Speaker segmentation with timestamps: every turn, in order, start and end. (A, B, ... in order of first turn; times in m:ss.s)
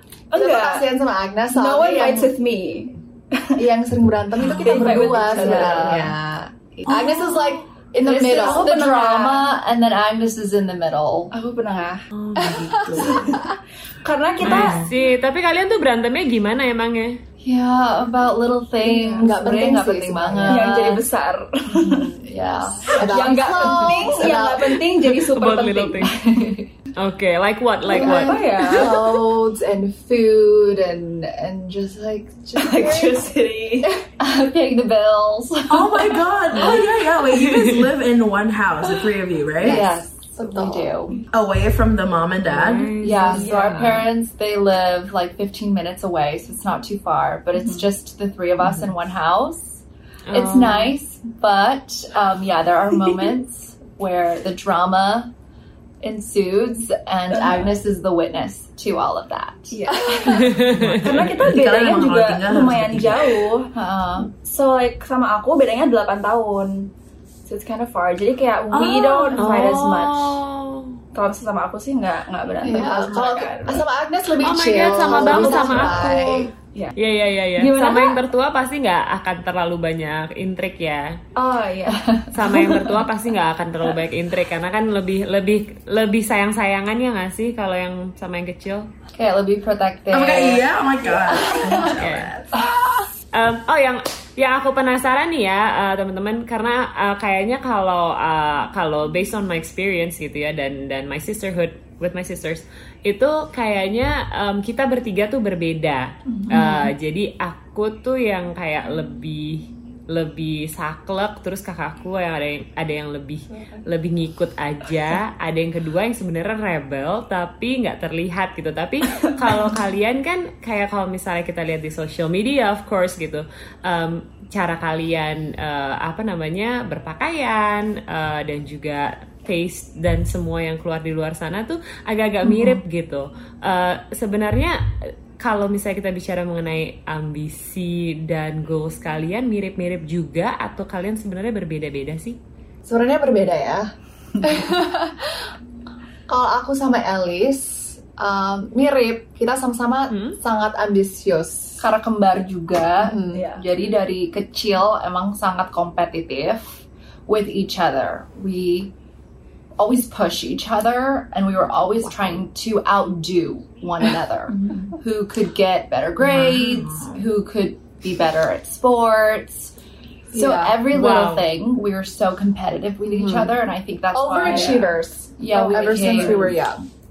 0:00.3-0:00.9 A
0:00.3-0:02.3 B
0:01.5-0:03.6 A
0:03.6-0:06.2 B
0:04.4-0:06.1 A
0:04.6-0:07.4 C
0:06.7-0:08.7 B
0:06.9-0:07.4 A
0:08.0-0:11.3 C
0:08.0-0:09.5 A
0:11.3-0:12.0 A
0:12.1-0:13.4 D
0:13.0-0:14.8 A
0:14.4-0:14.9 D
0:14.4-0:17.2 E
0:17.4-0:21.0 C
0:18.8-0:19.3 A
0:19.0-0:20.8 B
0:20.5-0:22.1 A
0:21.7-0:24.3 C
0:22.8-0:24.8 B
0:22.9-0:26.3 A
0:25.1-0:26.2 E
0:26.0-0:26.7 C
0:27.0-0:28.4 E
0:27.9-0:29.2 C
0:28.0-0:29.0 A
0:28.7-0:31.8 B
0:30.2-0:30.5 C
0:31.2-0:33.2 C
0:32.5-0:33.9 A
0:34.2-0:36.8 C
0:35.7-0:39.8 D
0:37.4-0:37.8 E
0:39.6-0:41.0 B
0:39.6-0:41.2 C
0:41.3-0:42.9 D
0:42.5-0:44.1 E
0:43.0-0:55.3 C
0:43.3-0:43.8 A
0:47.5-0:47.9 A
0:50.3-0:50.9 E
0:56.0-1:00.2 C
0:57.3-0:57.7 A
0:59.7-1:03.7 A
1:00.3-1:01.0 E
1:00.7-1:03.5 D
1:03.7-1:04.3 C
1:04.4-1:06.9 A
1:07.5-1:10.4 A
1:08.7-1:09.6 D
1:09.4-1:10.9 E
1:11.1-1:13.8 A
1:12.6-1:16.5 B
1:14.4-1:21.1 E
1:15.1-1:16.0 A
1:17.6-1:18.2 A
1:21.4-1:23.0 A
1:21.9-1:22.3 C
1:22.3-1:28.8 E
1:29.1-1:30.6 C
1:30.1-1:32.7 D
1:31.4-1:31.9 C
1:32.0-1:32.3 E
1:33.3-2:14.7 E
1:46.3-1:46.9 C
1:59.2-1:59.7 A
2:12.4-2:12.8 C
2:15.4-2:22.4 E
2:22.8-2:23.8 B
2:24.4-2:25.4 B
2:26.3-2:31.8 B
2:30.1-2:30.4 E
2:31.8-2:38.9 C
2:33.0-2:33.4 B
2:33.3-2:33.6 A
2:39.8-2:49.7 C
2:46.2-2:47.3 D
2:50.3-2:50.9 B
2:50.3-2:56.6 C
2:50.9-2:51.5 E
2:53.1-2:53.5 B
2:54.1-2:56.9 B
2:54.4-2:54.8 A
2:56.1-2:56.5 A